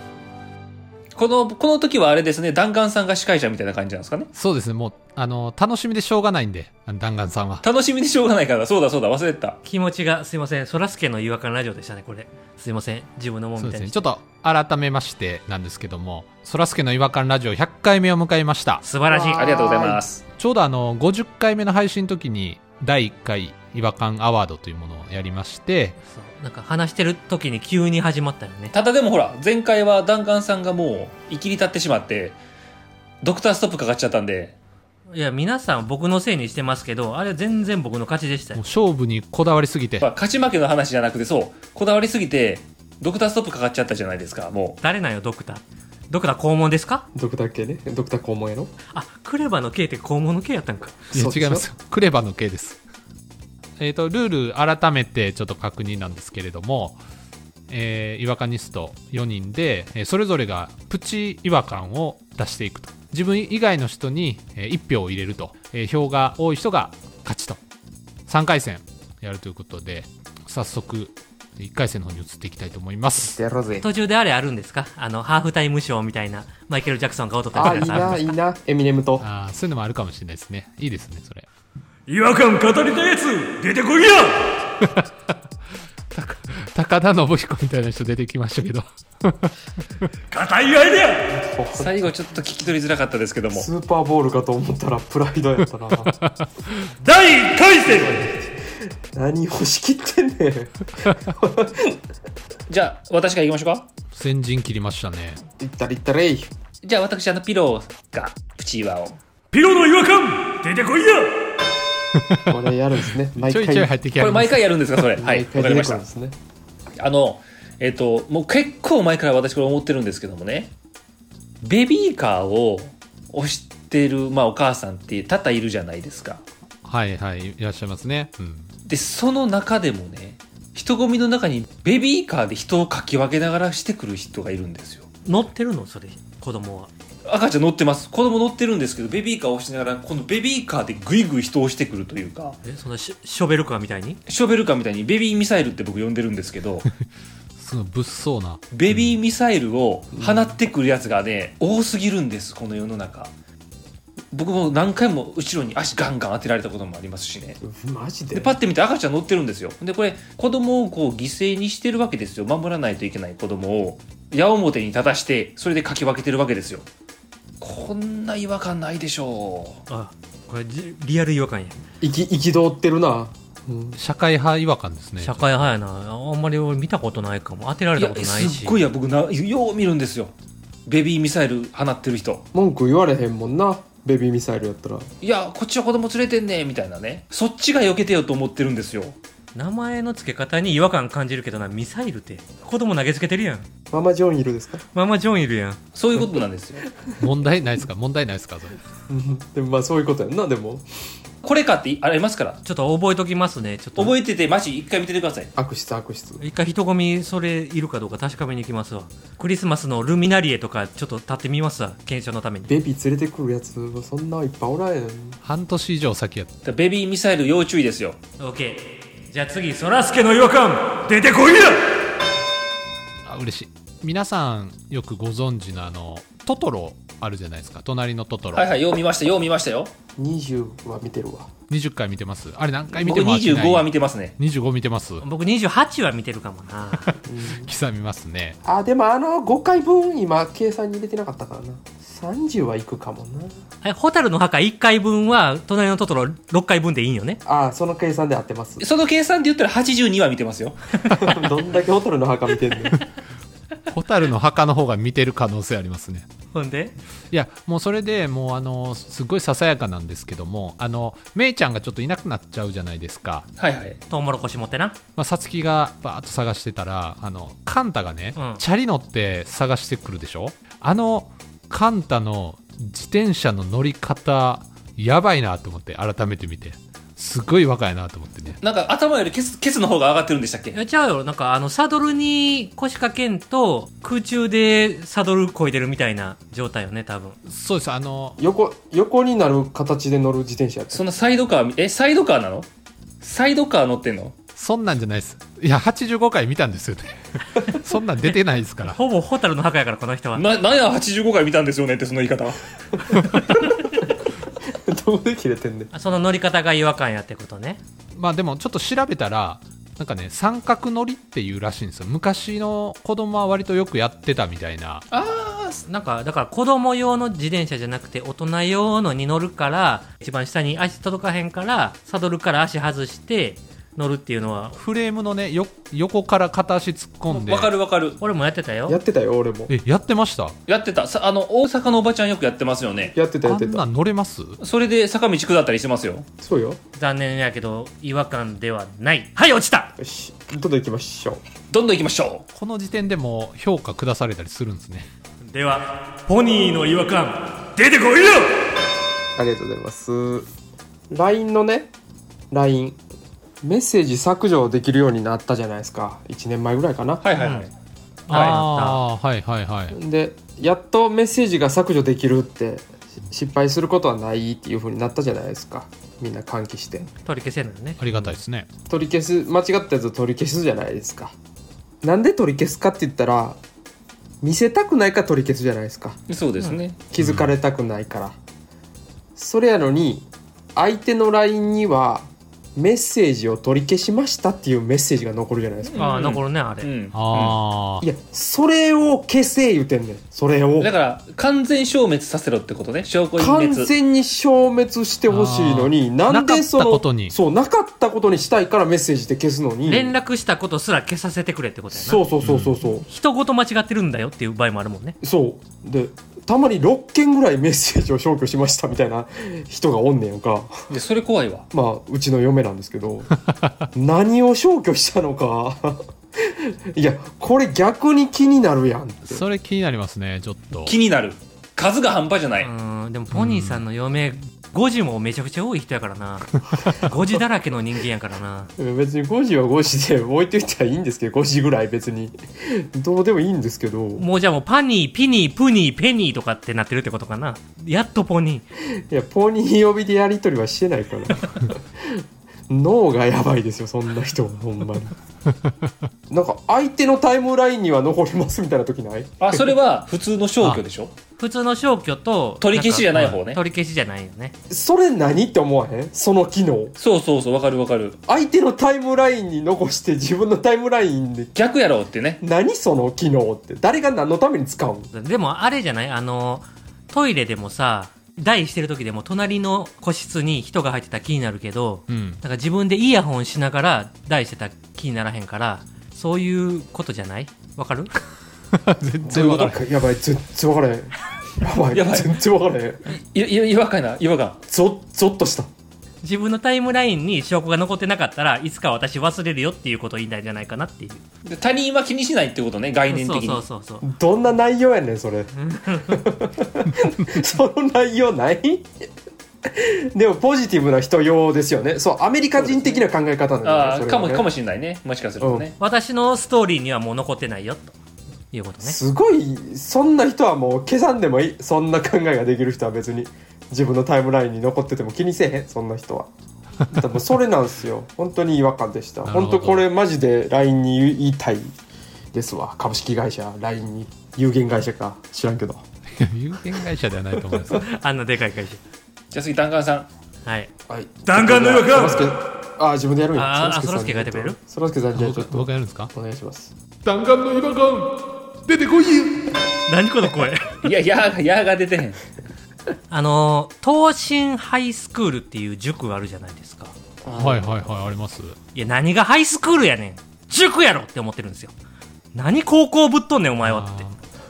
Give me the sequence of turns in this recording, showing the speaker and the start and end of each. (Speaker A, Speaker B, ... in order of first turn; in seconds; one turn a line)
Speaker A: 1.1-4.3
Speaker B: 4.3-7.6
Speaker A: 7.6-9.6
Speaker C: 9.6-14.1
Speaker B: 13.6-18.8
Speaker C: 18.8-19.8
Speaker D: 19.1-20.0
Speaker A: 19.3-20.2
Speaker B: 20.4-25.9
Speaker C: 26.0-28.7
Speaker A: 28.7-32.4
Speaker A: 33.2-34.6
Speaker C: 35.1-38.6
Speaker B: 38.5-40.1
Speaker A: 40.0-44.8
Speaker C: 44.8-47.0
Speaker D: 47.1-48.7
Speaker C: 48.9-51.0
Speaker D: 51.1-51.7
Speaker B: 51.1-52.8
Speaker B: 53.8-57.0
Speaker B: 57.7-67.6
Speaker B: 68.3-73.4
Speaker D: 73.2-73.9
Speaker C: 73.8-78.3
Speaker D: 77.5-79.2
Speaker B: 77.6-78.2
Speaker B: 79.2-81.5
Speaker C: 82.1-84.4
Speaker B: 86.1-90.1
Speaker C: 90.3-91.3
Speaker D: 91.3-92.0
Speaker A: 91.7-93.7
Speaker D: 93.5-96.1
Speaker B: 96.0-96.9
Speaker C: 97.0-98.4
Speaker D: 98.8-102.0
Speaker A: 102.7-103.9
Speaker B: 104.1-105.4
Speaker D: 105.6-106.5
Speaker A: 106.8-109.2
Speaker C: 109.5-111.4
Speaker B: 112.1-112.6
Speaker D: 112.5-113.9
Speaker B: 113.3-114.7
Speaker A: 114.2-116.0
Speaker D: 115.2-116.4
Speaker A: 117.0-120.7
Speaker A: 121.6-126.4
Speaker B: 126.8-128.7
Speaker A: 128.8-135.1
Speaker C: 135.2-136.9
Speaker A: 137.2-142.6
Speaker C: 142.6-144.2
Speaker A: 144.3-146.9
Speaker B: 147.6-149.2
Speaker A: 148.7-153.3
Speaker D: 150.2-150.5
Speaker A: 154.3-157.6
Speaker D: 157.6-158.6
Speaker A: 158.3-166.8
Speaker A: 167.6-169.8
Speaker C: 169.9-171.8
Speaker D: 172.0-174.0
Speaker B: 173.9-175.7
Speaker C: 175.2-178.8
Speaker A: 177.9-180.3
Speaker A: 180.8-182.4
Speaker D: 182.5-185.1
Speaker A: 185.2-189.2
Speaker C: 189.5-193.7
Speaker D: 193.9-194.8
Speaker C: 194.9-195.8
Speaker A: 195.9-196.9
Speaker B: 197.2-198.8
Speaker D: 199.1-200.8
Speaker A: 201.4-202.6
Speaker C: 202.6-204.2
Speaker A: 204.0-205.5
Speaker D: 205.5-206.4
Speaker C: 206.4-212.7
Speaker D: 212.6-215.4
Speaker B: 215.4-216.5
Speaker A: 216.6-218.2
Speaker C: 218.4-221.9
Speaker B: 223.2-228.7
Speaker A: 228.5-229.9
Speaker D: 230.2-231.5
Speaker B: 231.7-235.2
Speaker A: 232.9-234.3
Speaker C: 235.2-237.1
Speaker B: 237.1-238.6
Speaker D: 237.2-237.7
Speaker D: 238.6-243.6
Speaker C: 243.8-247.4
Speaker D: 247.4-248.8
Speaker A: 248.8-251.4
Speaker D: 251.1-253.0
Speaker B: 253.9-256.3
Speaker C: 256.5-256.9
Speaker B: 257.3-263.5
Speaker A: 263.6-264.0
Speaker C: 264.1-265.0
Speaker B: 265.1-278.6
Speaker C: 268.4-268.6
Speaker A: 278.6-280.8
Speaker C: 280.7-287.4
Speaker B: 287.4-288.4
Speaker D: 288.4-291.0
Speaker A: 290.9-292.7
Speaker A: 293.2-294.4
Speaker B: 294.6-299.0
Speaker C: 298.9-300.4
Speaker A: 300.4-302.6
Speaker D: 303.6-303.9
Speaker D: 304.6-305.9
Speaker C: 305.9-307.8
Speaker B: 308.1-315.1
Speaker A: 315.1-315.8
Speaker C: 315.9-324.8
Speaker B: 324.8-327.7
Speaker A: 327.3-328.2
Speaker C: 328.2-329.0
Speaker D: 328.9-329.7
Speaker B: 329.7-330.6
Speaker A: 330.7-333.1
Speaker D: 333.1-333.8
Speaker B: 333.4-334.6
Speaker A: 334.6-336.3
Speaker D: 336.4-336.8
Speaker C: 336.9-339.9
Speaker D: 340.0-341.4
Speaker A: 341.7-342.5
Speaker B: 342.5-345.1
Speaker C: 345.4-348.6
Speaker D: 349.4-350.5
Speaker D: 351.1-351.9
Speaker D: 352.5-353.0
Speaker D: 353.6-357.2
Speaker A: 357.2-357.7
Speaker C: 357.4-357.7
Speaker C: 358.3-359.0
Speaker A: 358.3-358.6
Speaker B: 358.3-360.0
Speaker D: 359.9-367.1
Speaker C: 367.2-368.0
Speaker B: 368.0-368.7
Speaker D: 368.9-371.4
Speaker D: 372.0-373.6
Speaker D: 374.4-376.2
Speaker A: 376.3-377.0
Speaker D: 377.1-378.4
Speaker B: 377.2-377.5
Speaker D: 379.4-386.0
Speaker C: 385.9-386.9
Speaker A: 386.0-387.6
Speaker B: 387.1-388.1
Speaker D: 388.0-390.9
Speaker A: 390.8-393.9
Speaker D: 393.4-400.1
Speaker B: 395.3-397.4
Speaker C: 399.8-402.2
Speaker D: 401.9-403.1
Speaker B: 402.4-402.7
Speaker C: 403.1-405.2
Speaker D: 405.2-410.9
Speaker A: 410.9-411.6
Speaker D: 411.7-413.3
Speaker D: 413.9-419.4
Speaker B: 419.3-420.9
Speaker A: 420.8-422.7
Speaker C: 422.6-428.7
Speaker B: 423.3-423.8
Speaker D: 428.8-434.2
Speaker C: 434.2-438.6
Speaker D: 439.0-445.1
Speaker D: 446.3-449.7
Speaker A: 449.4-451.1
Speaker C: 451.4-454.5
Speaker A: 452.6-453.6
Speaker D: 454.7-456.9
Speaker A: 457.0-458.2
Speaker D: 458.3-461.5
Speaker A: 461.5-462.4
Speaker D: 462.4-465.1
Speaker C: 465.1-478.1
Speaker B: 472.1-472.4
Speaker B: 478.7-479.8
Speaker D: 479.2-483.0
Speaker A: 481.9-482.4
Speaker A: 483.1-484.6
Speaker D: 484.7-485.7
Speaker C: 486.2-491.2
Speaker A: 491.4-493.6
Speaker C: 493.1-494.1
Speaker D: 494.0-498.9
Speaker C: 495.6-496.2
Speaker D: 499.6-504.5
Speaker C: 502.6-503.0
Speaker A: 503.6-505.7
Speaker D: 505.4-505.7
Speaker C: 505.8-507.9
Speaker C: 508.5-509.0
Speaker D: 508.8-516.3
Speaker D: 516.9-521.7
Speaker B: 519.2-519.9
Speaker D: 522.3-525.8
Speaker B: 526.1-527.9
Speaker C: 527.7-528.8
Speaker A: 529.3-530.1
Speaker C: 530.4-530.7
Speaker D: 530.9-536.7
Speaker C: 531.2-532.3
Speaker C: 533.3-534.6
Speaker B: 535.1-536.1
Speaker B: 537.0-539.5
Speaker C: 539.9-540.9
Speaker A: 540.8-542.2
Speaker C: 543.1-547.0
Speaker D: 547.2-547.9
Speaker B: 547.3-548.6
Speaker C: 548.7-551.7
Speaker C: 552.3-554.1
Speaker B: 553.6-554.1